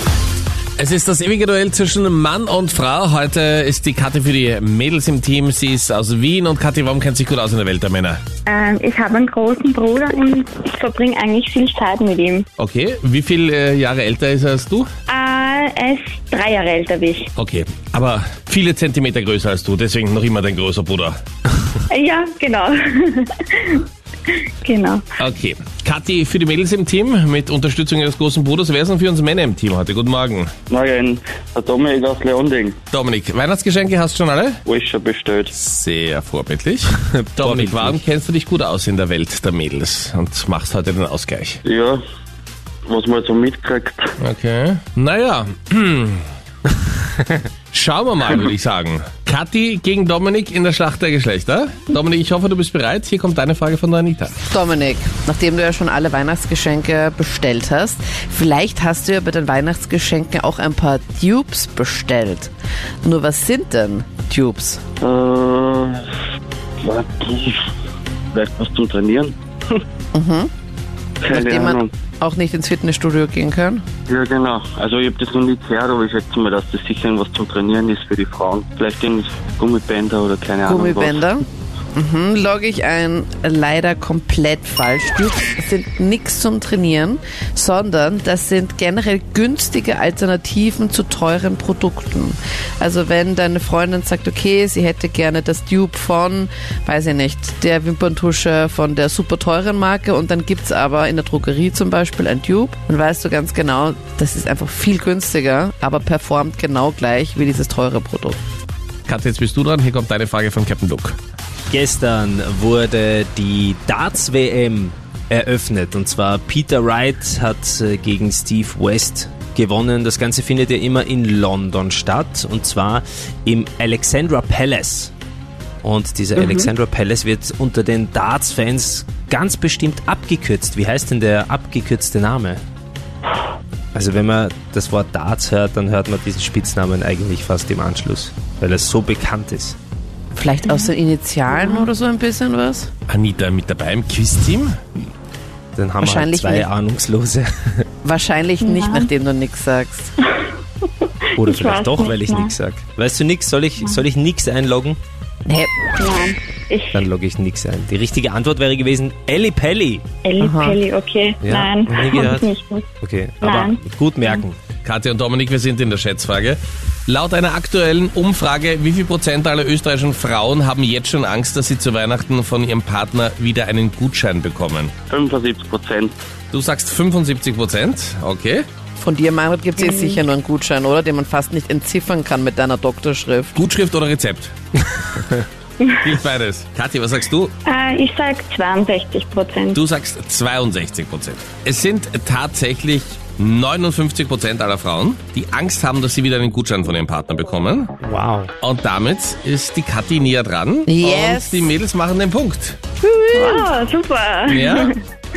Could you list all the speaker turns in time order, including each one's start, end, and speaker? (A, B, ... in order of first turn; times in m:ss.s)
0:00.8-0:08.2 A
0:08.4-0:12.4 B
0:12.6-0:14.9 A
0:15.1-0:17.3 B
0:17.4-0:21.1 A
0:21.9-0:25.0 B
0:25.2-0:30.5 A
0:30.7-0:32.8 C
0:32.9-0:34.6 A
0:34.7-0:35.5 C
0:35.5-0:41.6 A
0:37.0-0:38.0 D
0:41.6-0:42.0 C
0:42.8-0:44.1 C
0:44.2-0:46.2 A
0:47.7-0:54.3 A
0:54.5-1:02.5 E
1:03.0-1:04.8 E
1:05.0-1:06.1 C
1:06.8-1:07.7 C
1:08.3-1:09.8 C
1:10.1-1:10.5 E
1:11.2-1:11.9 C
1:11.3-1:13.8 E
1:14.1-1:21.2 C
1:20.6-1:48.4 E
1:49.1-1:51.2 A
1:51.7-2:05.1 D
2:05.8-2:12.6 D
2:06.4-2:06.7 E
2:13.9-2:19.8 D
2:20.3-2:22.9 E
2:21.5-2:21.9 B
2:23.1-2:24.7 A
2:25.7-2:27.8 D
2:26.0-2:26.7 E
2:28.0-2:30.1 E
2:28.6-2:29.1 B
2:30.4-2:32.5 B
2:31.4-2:35.0 D
2:35.4-2:35.7 E
2:36.0-2:37.0 B
2:36.9-2:40.0 D
2:40.2-2:42.9 B
2:40.4-2:40.8 E
2:41.4-2:42.5 D
2:43.0-2:44.6 D
2:43.4-2:44.4 B
2:44.8-2:54.9 A
2:55.1-2:56.1 C
2:56.5-2:58.6 A
2:59.0-3:03.6 E
2:59.8-3:00.2 B
3:03.5-3:04.5 A
3:06.0-3:07.5 A
3:07.6-3:09.8 B
3:09.7-3:17.9 A
3:18.0-3:18.5 D
3:18.6-3:22.8 A
3:20.9-3:21.7 E
3:23.0-3:23.7 E
3:23.3-3:25.0 B
3:24.5-3:24.9 A